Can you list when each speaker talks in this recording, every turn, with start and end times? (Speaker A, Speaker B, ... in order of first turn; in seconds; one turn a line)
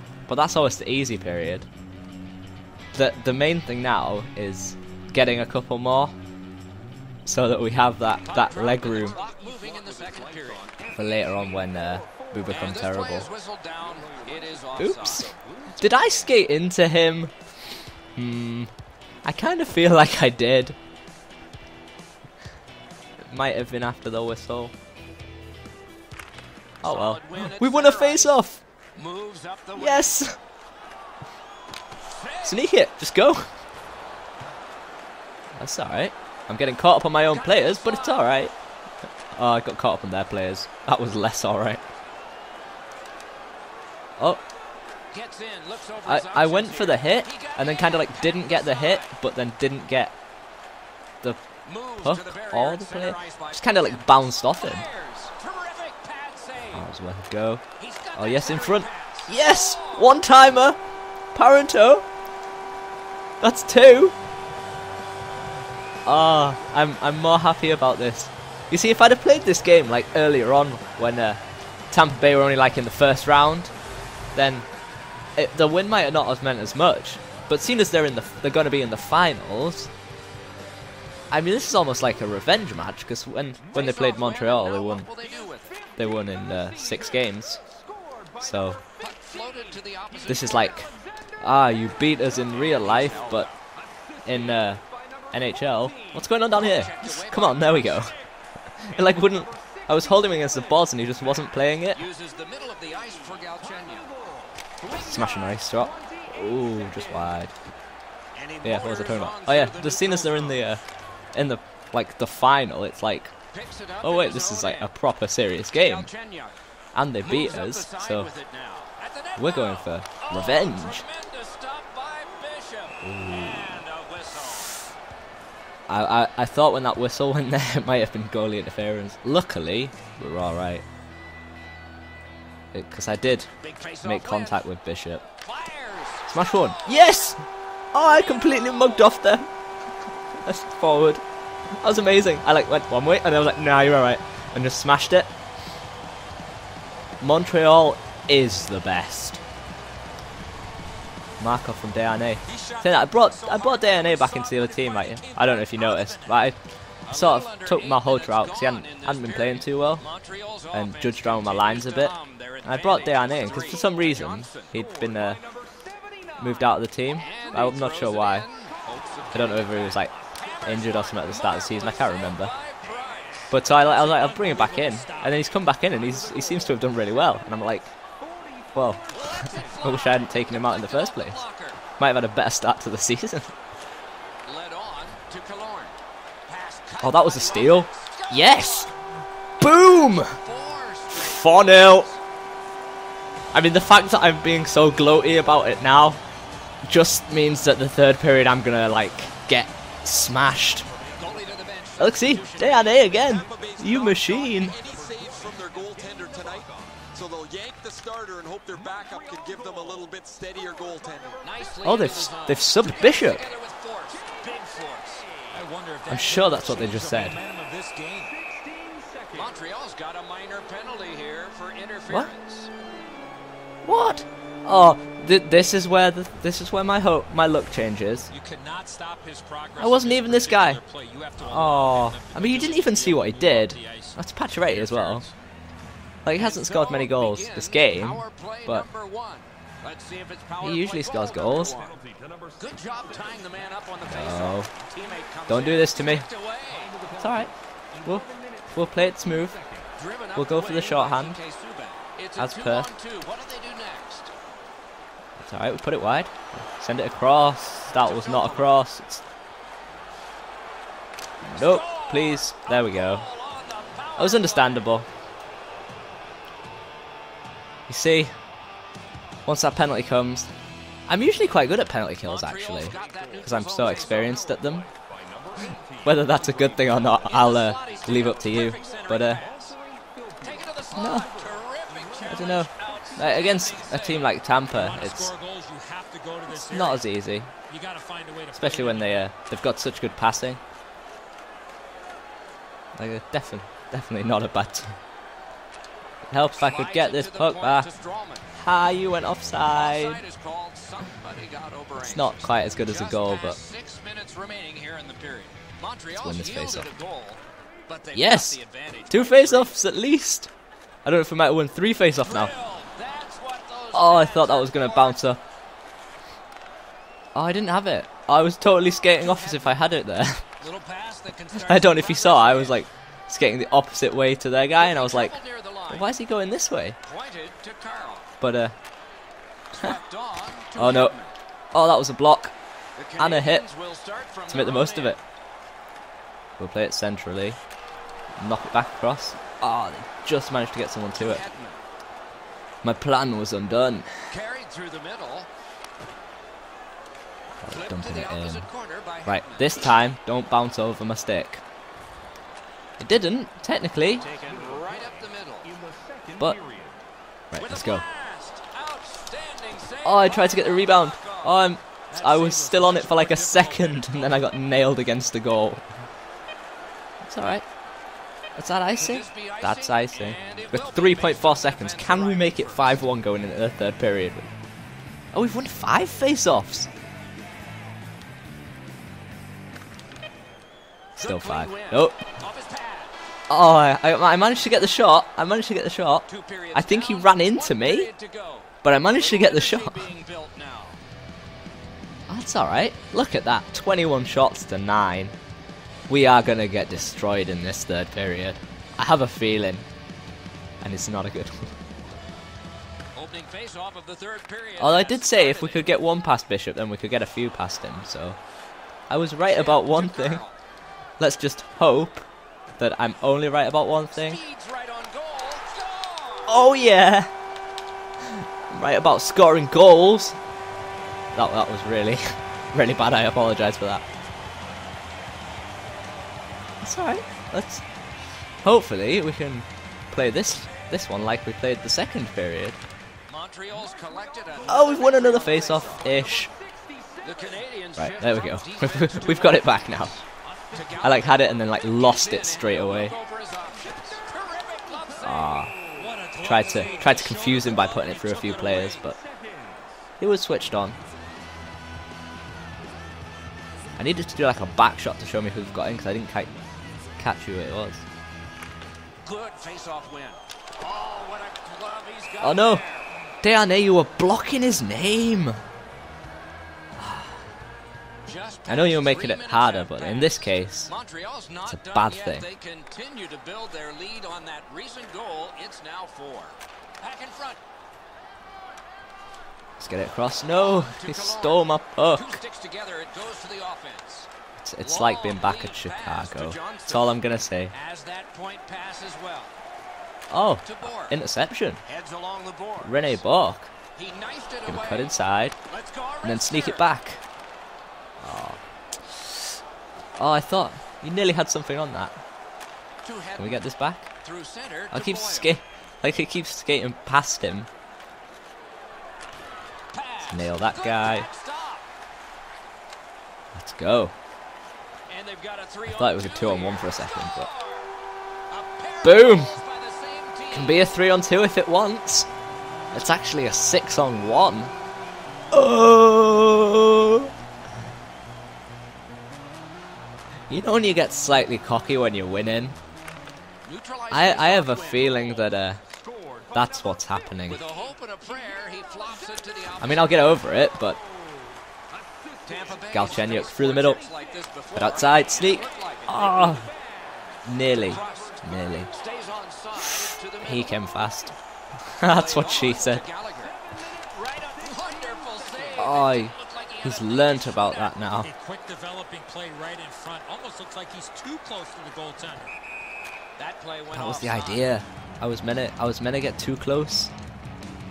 Speaker A: 0.3-1.7
Speaker A: 3.0-6.2
Speaker A: 7.3-9.2
Speaker B: 8.2-10.7
Speaker A: 10.9-13.3
Speaker B: 12.5-15.3
Speaker A: 14.8-17.3
Speaker A: 18.2-18.7
Speaker A: 19.2-20.8
Speaker A: 23.3-24.7
Speaker A: 26.8-28.6
Speaker B: 26.8-28.4
Speaker B: 28.9-30.2
Speaker A: 29.8-30.4
Speaker B: 32.1-32.6
Speaker A: 32.4-33.5
Speaker A: 35.6-38.5
Speaker B: 37.2-38.4
Speaker A: 39.4-41.8
Speaker A: 44.2-44.4
Speaker B: 45.1-49.2
Speaker A: 46.0-50.1
Speaker B: 51.6-56.9
Speaker A: 52.0-54.9
Speaker A: 56.7-57.6
Speaker B: 57.8-60.2
Speaker A: 58.2-60.8
Speaker A: 61.3-62.1
Speaker A: 63.4-64.2
Speaker A: 66.1-73.7
Speaker A: 74.3-74.7
Speaker A: 75.4-79.9
Speaker A: 81.3-85.1
Speaker B: 83.7-85.9
Speaker A: 86.0-87.6
Speaker A: 88.4-88.8
Speaker B: 89.0-90.5
Speaker A: 90.3-93.5
Speaker B: 92.5-93.6
Speaker A: 94.2-98.1
Speaker B: 96.4-98.2
Speaker A: 98.8-102.0
Speaker B: 101.9-104.1
Speaker B: 104.8-105.4
Speaker A: 104.8-107.5
Speaker B: 108.3-110.7
Speaker A: 108.6-110.8
Speaker A: 111.3-113.3
Speaker B: 113.5-114.9
Speaker A: 114.0-116.1
Speaker B: 115.7-116.5
Speaker A: 116.9-118.3
Speaker B: 117.2-124.7
Speaker A: 119.4-121.0
Speaker A: 123.0-123.8
Speaker A: 125.9-130.9
Speaker A: 132.7-133.5
Speaker B: 133.6-134.7
Speaker A: 134.0-135.2
Speaker B: 135.3-137.3
Speaker A: 136.3-137.4
Speaker A: 137.9-139.5
Speaker B: 138.0-139.2
Speaker A: 140.4-141.2
Speaker A: 141.8-145.3
Speaker A: 147.2-149.4
Speaker A: 151.4-156.6
Speaker B: 152.5-156.5
Speaker B: 157.1-164.8
Speaker A: 157.1-160.1
Speaker A: 160.7-165.4
Speaker A: 166.4-168.5
Speaker B: 167.1-173.6
Speaker A: 169.3-172.5
Speaker A: 173.5-177.9
Speaker C: 173.9-175.4
Speaker A: 178.7-181.4
Speaker B: 179.1-181.8
Speaker A: 182.0-183.5
Speaker B: 184.4-188.9
Speaker A: 187.0-188.9
Speaker A: 189.6-190.4
Speaker B: 190.3-192.2
Speaker A: 191.1-192.1
Speaker A: 193.5-196.2
Speaker A: 196.8-200.9
Speaker B: 200.9-203.4
Speaker A: 202.0-204.8
Speaker D: 203.4-211.4
Speaker B: 211.4-215.3
Speaker A: 211.8-213.5
Speaker C: 215.5-218.4
Speaker A: 216.1-217.4
Speaker D: 218.6-219.2
Speaker B: 219.3-222.7
Speaker A: 223.8-228.3
Speaker C: 228.3-235.3
Speaker A: 229.8-230.8
Speaker A: 231.4-235.2
Speaker A: 236.2-238.9
Speaker B: 236.3-242.0
Speaker A: 240.6-241.8
Speaker D: 242.1-242.4
Speaker B: 242.6-247.0
Speaker A: 244.0-244.7
Speaker A: 245.5-246.3
Speaker A: 247.2-247.5
Speaker A: 248.0-249.6
Speaker B: 250.0-254.3
Speaker A: 250.3-251.4
Speaker A: 252.4-252.9
Speaker A: 255.4-259.2
Speaker B: 257.9-258.8
Speaker A: 261.4-263.3
Speaker B: 261.5-265.0
Speaker A: 264.2-265.1
Speaker A: 267.9-268.3
Speaker A: 269.5-270.5
Speaker A: 271.1-274.9
Speaker B: 272.2-274.4
Speaker A: 276.1-279.4
Speaker B: 277.1-279.8
Speaker B: 280.4-284.4
Speaker A: 280.9-281.3
Speaker A: 282.2-285.3
Speaker C: 284.7-287.0
Speaker A: 286.5-287.5
Speaker C: 287.7-289.2
Speaker A: 288.6-290.6
Speaker A: 293.0-295.0
Speaker A: 296.3-297.9
Speaker B: 296.5-298.5
Speaker A: 298.6-300.2
Speaker B: 299.7-309.8
Speaker A: 302.0-303.6
Speaker A: 306.1-306.9
Speaker A: 308.1-310.5
Speaker A: 311.1-312.5
Speaker B: 312.2-315.2
Speaker A: 313.9-315.4
Speaker A: 317.4-320.4
Speaker B: 319.3-319.6
Speaker B: 320.6-322.9
Speaker A: 321.5-325.4
Speaker B: 324.8-326.1
Speaker A: 325.9-327.0
Speaker B: 327.1-328.3
Speaker A: 328.4-328.8
Speaker B: 329.7-331.4
Speaker A: 330.8-331.2
Speaker A: 331.7-332.5
Speaker B: 333.0-335.2
Speaker A: 333.2-333.7
Speaker A: 334.5-335.2
Speaker A: 336.6-337.6
Speaker A: 338.4-341.4
Speaker B: 341.2-341.8
Speaker A: 342.8-344.1
Speaker B: 344.3-345.5
Speaker A: 347.6-348.7
Speaker B: 347.7-349.9
Speaker A: 349.3-351.6
Speaker A: 353.0-354.3
Speaker B: 354.1-355.8
Speaker D: 355.9-356.5
Speaker A: 357.5-358.1
Speaker B: 357.6-364.5
Speaker A: 360.0-365.9
Speaker A: 367.2-367.7
Speaker A: 368.6-374.5
Speaker B: 369.0-373.0
Speaker A: 375.3-376.9
Speaker A: 381.2-382.2
Speaker B: 381.2-383.1
Speaker A: 383.5-388.1
Speaker B: 386.3-391.0
Speaker A: 388.8-390.1
Speaker A: 392.3-395.4
Speaker A: 396.1-399.9
Speaker A: 400.8-401.7
Speaker B: 403.1-406.0
Speaker A: 404.8-408.4
Speaker A: 409.1-410.4
Speaker B: 409.4-410.6
Speaker A: 411.2-412.3
Speaker A: 412.8-414.4
Speaker B: 414.1-416.6
Speaker A: 416.5-417.3
Speaker A: 418.7-420.4
Speaker A: 421.4-424.1
Speaker A: 426.8-427.8
Speaker A: 428.6-432.8
Speaker B: 433.3-436.2
Speaker A: 434.7-436.5
Speaker B: 437.2-440.1
Speaker A: 438.0-440.2
Speaker B: 440.7-445.5
Speaker A: 441.0-443.2
Speaker A: 445.2-445.7
Speaker C: 445.9-449.0
Speaker A: 446.4-449.2
Speaker A: 450.2-451.0
Speaker A: 454.0-456.5
Speaker A: 457.2-458.1
Speaker B: 459.2-463.1
Speaker A: 462.4-462.8
Speaker A: 463.4-465.6
Speaker A: 467.0-467.4
Speaker B: 468.2-477.6
Speaker A: 468.7-470.9
Speaker A: 471.6-472.5
Speaker A: 479.8-482.4
Speaker B: 480.5-487.2
Speaker A: 484.6-487.8
Speaker B: 487.7-489.5
Speaker A: 490.3-491.8
Speaker B: 490.6-491.2
Speaker B: 491.9-493.2
Speaker A: 492.8-493.7
Speaker B: 494.0-496.9
Speaker A: 494.7-495.6
Speaker A: 496.2-497.2
Speaker A: 498.2-499.5
Speaker A: 500.2-502.2
Speaker B: 503.0-503.7
Speaker A: 503.4-504.1
Speaker B: 504.2-505.6
Speaker A: 504.9-507.7
Speaker B: 509.9-511.9
Speaker A: 510.3-511.3
Speaker A: 513.5-514.1
Speaker B: 515.1-517.9
Speaker A: 515.9-517.5
Speaker B: 518.5-520.9
Speaker A: 519.0-519.6
Speaker A: 520.5-522.3
Speaker A: 522.9-524.7
Speaker A: 525.5-527.3
Speaker A: 530.5-532.8
Speaker B: 533.6-535.5
Speaker A: 534.1-535.8
Speaker A: 536.5-537.6
Speaker B: 537.5-540.3
Speaker A: 539.8-541.0
Speaker B: 542.5-546.7
Speaker A: 542.9-544.1
Speaker A: 544.8-546.7
Speaker A: 547.5-548.9
Speaker B: 547.7-550.9
Speaker A: 550.0-551.4
Speaker A: 552.0-553.0
Speaker B: 552.0-558.1
Speaker A: 555.8-558.3
Speaker C: 558.2-562.5
Speaker B: 563.4-564.7
Speaker A: 563.9-567.1